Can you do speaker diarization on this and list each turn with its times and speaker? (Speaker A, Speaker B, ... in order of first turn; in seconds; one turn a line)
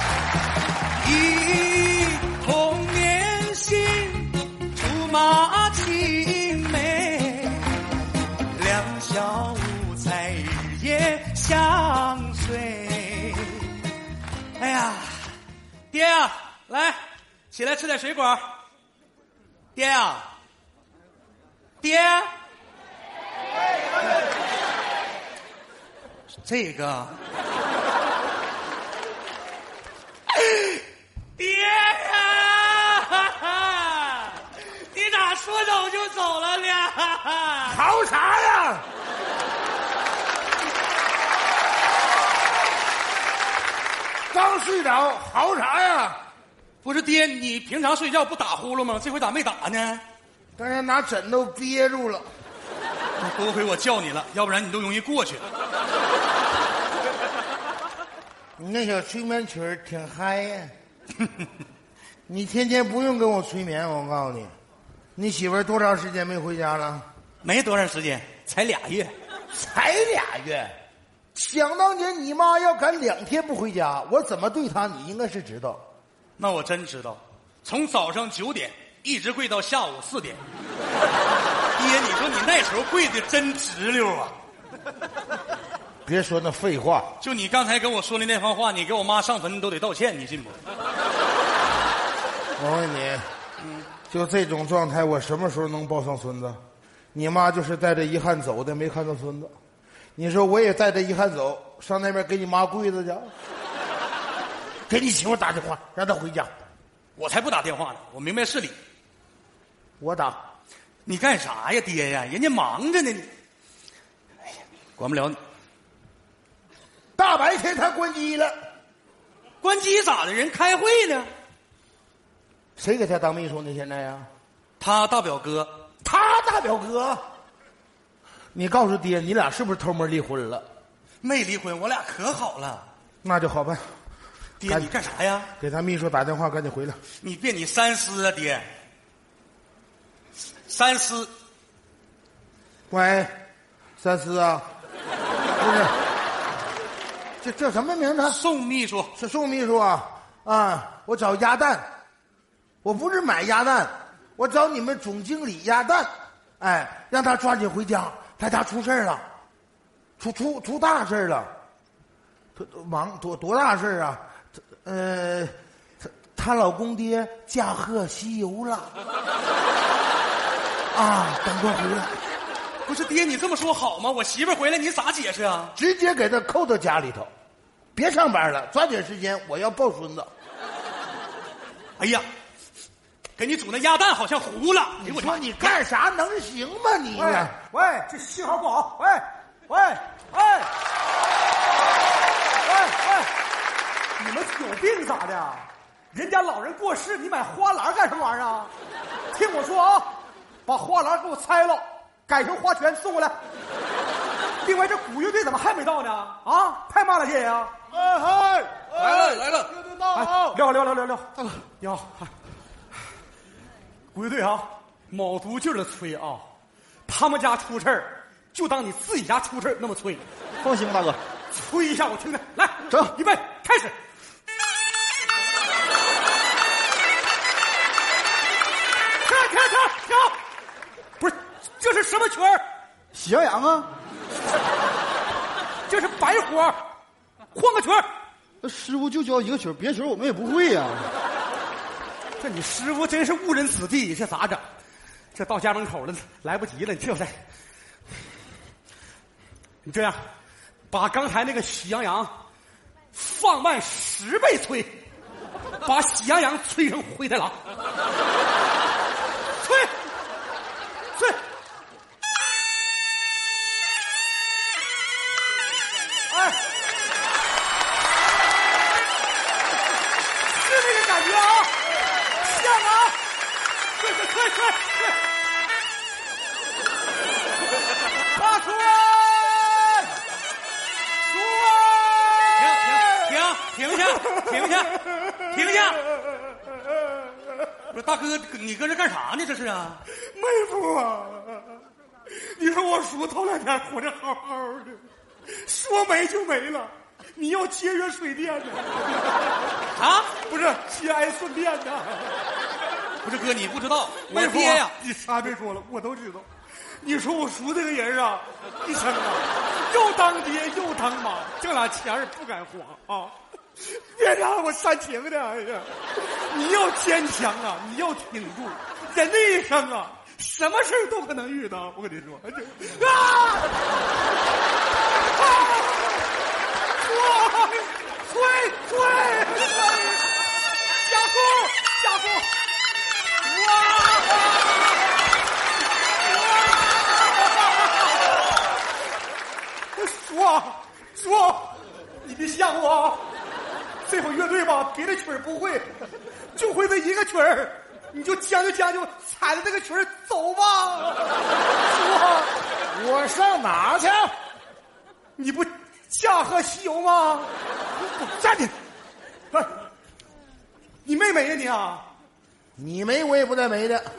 Speaker A: 0.9-7.8
Speaker A: 8.5-13.8
Speaker A: 14.6-15.3
Speaker A: 15.9-17.0
Speaker A: 17.5-18.4
Speaker A: 19.8-20.2
Speaker A: 21.8-22.3
Speaker A: 26.4-27.2
Speaker A: 30.3-30.8
Speaker A: 31.4-37.9
Speaker B: 37.6-38.8
Speaker B: 44.3-46.2
Speaker A: 46.8-50.0
Speaker B: 50.6-52.3
Speaker A: 53.2-55.4
Speaker B: 58.6-60.7
Speaker B: 62.3-64.5
Speaker B: 65.2-67.0
Speaker A: 67.4-69.1
Speaker B: 69.5-70.7
Speaker B: 71.3-75.8
Speaker A: 76.4-80.4
Speaker A: 81.8-84.3
Speaker B: 86.0-87.1
Speaker A: 87.2-90.5
Speaker B: 92.6-93.2
Speaker A: 93.6-93.9
Speaker B: 94.1-96.6
Speaker B: 97.1-99.5
Speaker B: 100.2-103.3
Speaker B: 104.9-106.5
Speaker A: 107.2-108.7
Speaker B: 110.0-110.4
Speaker A: 111.0-113.3
Speaker A: 115.0-115.4
Speaker B: 117.2-118.5
Speaker A: 119.6-121.3
Speaker B: 122.8-124.3
Speaker A: 124.8-125.8
Speaker B: 126.0-127.2
Speaker B: 128.5-130.7
Speaker A: 131.2-132.8
Speaker B: 133.2-133.9
Speaker A: 134.6-135.5
Speaker B: 135.6-137.0
Speaker A: 137.2-138.7
Speaker A: 140.7-141.3
Speaker B: 142.9-143.3
Speaker B: 144.0-144.7
Speaker B: 145.6-145.9
Speaker B: 147.4-148.4
Speaker A: 148.2-149.1
Speaker B: 149.2-151.9
Speaker B: 152.8-159.2
Speaker B: 160.2-161.5
Speaker B: 162.6-164.2
Speaker B: 164.8-165.5
Speaker B: 166.1-168.9
Speaker B: 170.9-172.2
Speaker A: 172.8-175.7
Speaker B: 175.8-177.3
Speaker B: 177.9-180.3
Speaker A: 182.0-182.2
Speaker A: 183.4-185.8
Speaker B: 185.0-187.5
Speaker C: 187.1-190.7
Speaker C: 192.6-193.3
Speaker C: 194.2-198.7
Speaker C: 199.3-203.3
Speaker C: 204.6-207.8
Speaker D: 208.2-208.8
Speaker A: 209.0-209.7
Speaker C: 210.1-212.3
Speaker C: 214.1-216.5
Speaker C: 217.1-220.2
Speaker D: 220.6-221.2
Speaker C: 221.5-223.9
Speaker C: 229.2-230.3
Speaker C: 231.2-232.6
Speaker D: 233.1-233.9
Speaker C: 235.9-236.8
Speaker C: 237.5-238.1
Speaker D: 238.6-241.1
Speaker C: 242.4-244.6
Speaker C: 245.3-247.4
Speaker C: 249.8-250.3
Speaker C: 250.9-252.4
Speaker C: 253.1-255.0
Speaker C: 255.8-257.6
Speaker C: 259.6-259.9
Speaker C: 266.3-266.6
Speaker C: 270.5-271.8
Speaker C: 272.3-273.1
Speaker C: 273.9-275.1
Speaker C: 278.2-280.0
Speaker C: 281.3-283.3
Speaker A: 282.6-286.0
Speaker C: 284.1-284.6
Speaker A: 287.9-290.0
Speaker C: 290.2-299.1
Speaker A: 299.9-300.3
Speaker C: 300.4-302.4
Speaker A: 303.2-304.9
Speaker C: 304.3-306.5
Speaker C: 307.0-323.7
Speaker C: 325.2-326.2
Speaker C: 327.0-330.2
Speaker C: 331.0-332.5
Speaker C: 333.4-334.6
Speaker C: 339.9-343.2
Speaker C: 344.0-345.9
Speaker C: 346.5-352.5
Speaker B: 352.9-354.3
Speaker C: 355.4-357.5
Speaker B: 358.3-358.7
Speaker C: 361.0-362.0
Speaker B: 362.8-364.1